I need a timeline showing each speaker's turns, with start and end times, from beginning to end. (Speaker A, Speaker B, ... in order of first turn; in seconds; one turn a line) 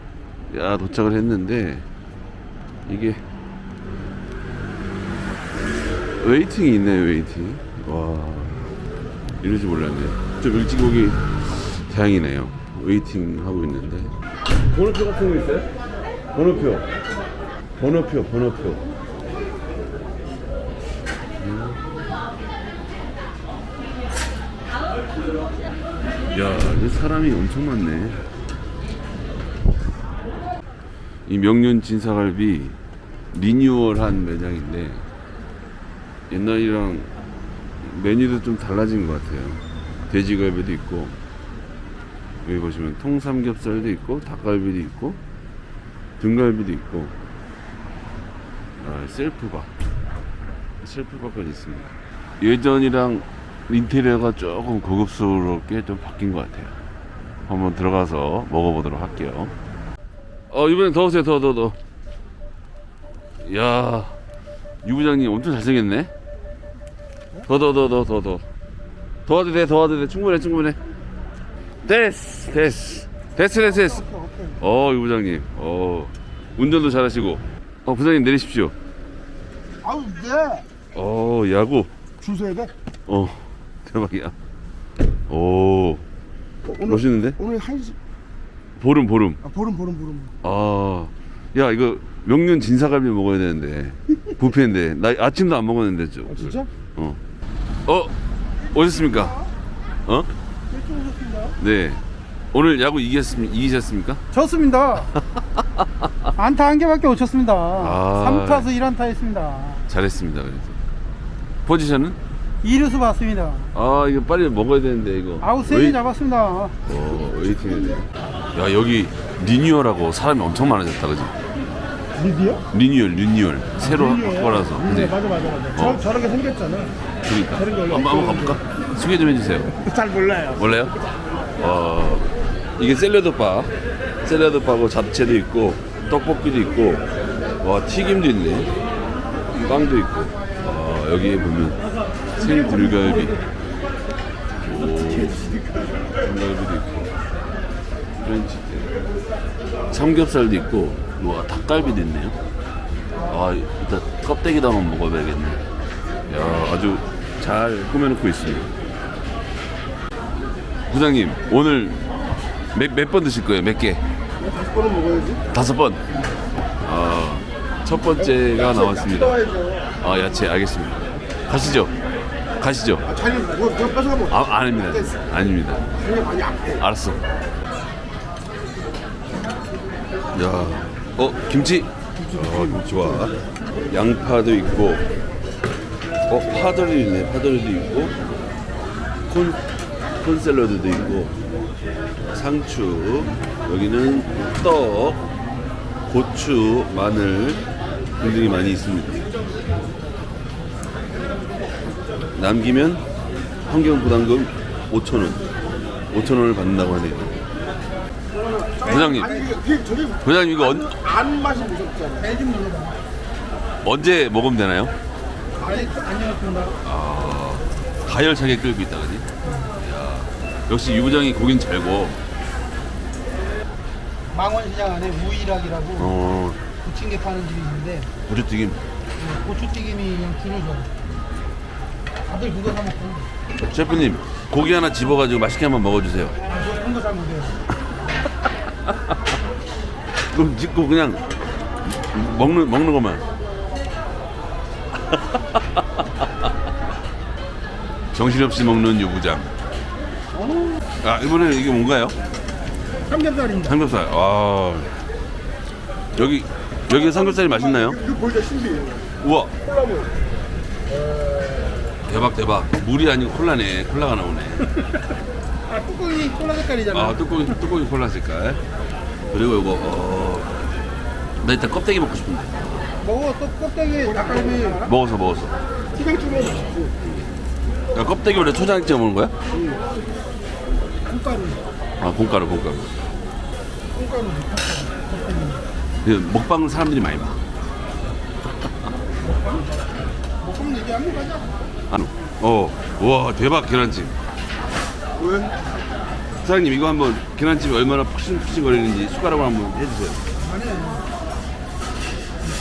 Speaker A: 0.5-1.9
Speaker A: 2.9-3.2
Speaker A: 6.2-8.8
Speaker A: 9.4-15.7
Speaker A: 16.3-16.9
Speaker A: 17.8-18.8
Speaker A: 21.4-21.8
Speaker A: 26.3-28.2
Speaker A: 31.3-32.8
Speaker A: 33.3-35.1
Speaker A: 36.3-37.1
Speaker A: 37.8-41.2
Speaker A: 42.4-45.2
Speaker A: 46.2-47.1
Speaker A: 48.8-49.7
Speaker A: 50.8-56.8
Speaker A: 57.5-59.5
Speaker A: 60.5-61.8
Speaker A: 63.4-64.1
Speaker A: 64.8-66.1
Speaker A: 67.5-68.4
Speaker A: 69.3-70.8
Speaker A: 71.8-74.1
Speaker B: 73.8-74.4
Speaker A: 74.6-78.8
Speaker B: 79.8-80.7
Speaker A: 80.9-81.9
Speaker B: 82.2-82.7
Speaker A: 83.1-84.3
Speaker A: 85.3-86.0
Speaker B: 86.7-88.0
Speaker A: 86.8-87.4
Speaker A: 88.8-89.4
Speaker B: 89.4-90.3
Speaker A: 90.4-97.2
Speaker A: 97.9-98.1
Speaker A: 98.7-99.4
Speaker A: 100.1-100.3
Speaker C: 100.7-101.6
Speaker A: 101.6-102.0
Speaker A: 102.5-104.2
Speaker C: 104.3-105.1
Speaker C: 106.3-109.9
Speaker A: 107.8-108.7
Speaker A: 109.9-110.8
Speaker A: 111.7-112.2
Speaker C: 112.6-113.7
Speaker A: 113.7-116.0
Speaker C: 115.4-116.8
Speaker A: 116.9-121.3
Speaker B: 122.2-122.6
Speaker A: 122.7-126.2
Speaker B: 124.2-126.9
Speaker A: 127.2-129.8
Speaker B: 127.6-128.6
Speaker B: 129.8-130.6
Speaker A: 130.6-131.0
Speaker A: 131.6-133.7
Speaker A: 134.2-137.1
Speaker A: 137.6-138.7
Speaker A: 139.5-141.8
Speaker A: 142.4-143.4
Speaker A: 144.6-145.4
Speaker A: 146.2-147.1
Speaker A: 148.2-148.9
Speaker A: 149.9-152.4
Speaker A: 153.3-155.6
Speaker A: 156.3-158.7
Speaker A: 160.9-162.0
Speaker A: 162.7-164.0
Speaker B: 164.4-165.4
Speaker A: 165.5-166.0
Speaker A: 166.8-169.4
Speaker B: 168.3-169.9
Speaker A: 170.0-171.9
Speaker A: 172.6-173.1
Speaker B: 173.1-175.1
Speaker A: 174.3-175.9
Speaker B: 176.0-176.8
Speaker A: 176.8-177.2
Speaker A: 180.3-183.4
Speaker B: 182.5-183.0
Speaker A: 183.9-185.1
Speaker A: 186.3-188.2
Speaker A: 189.3-189.6
Speaker A: 190.2-191.3
Speaker A: 192.3-195.2
Speaker A: 196.1-197.6
Speaker A: 198.2-199.2
Speaker A: 202.3-203.1
Speaker A: 203.7-205.4
Speaker A: 206.1-207.4
Speaker B: 208.3-212.2
Speaker C: 208.8-209.6
Speaker A: 208.8-209.4
Speaker A: 210.2-211.0
Speaker C: 212.2-213.0
Speaker A: 213.8-214.9
Speaker C: 215.6-216.8
Speaker A: 216.8-219.2
Speaker C: 219.4-219.7
Speaker A: 219.8-222.2
Speaker C: 224.3-226.2
Speaker A: 226.0-226.6
Speaker C: 226.8-228.1
Speaker A: 228.3-228.8
Speaker C: 229.2-230.9
Speaker C: 232.3-233.3
Speaker A: 233.7-236.4
Speaker C: 236.5-237.6
Speaker A: 240.3-241.2
Speaker A: 241.9-243.2
Speaker A: 248.1-249.5
Speaker A: 251.0-252.2
Speaker C: 253.1-253.8
Speaker A: 253.6-255.0
Speaker A: 256.2-258.0
Speaker B: 257.0-259.1
Speaker A: 259.2-259.5
Speaker B: 259.6-260.1
Speaker A: 262.1-264.7
Speaker C: 265.7-267.4
Speaker A: 266.9-268.6
Speaker A: 269.3-270.5
Speaker A: 271.4-272.6
Speaker C: 273.0-274.9
Speaker B: 274.2-274.7
Speaker A: 274.8-275.5
Speaker B: 275.9-276.9
Speaker A: 277.0-277.3
Speaker A: 277.9-279.3
Speaker C: 281.1-281.6
Speaker A: 282.0-282.9
Speaker C: 283.9-285.6
Speaker A: 286.0-287.4
Speaker C: 289.2-289.6
Speaker C: 290.4-291.7
Speaker A: 291.9-294.1
Speaker B: 295.2-295.5
Speaker A: 296.4-300.2
Speaker C: 300.4-301.1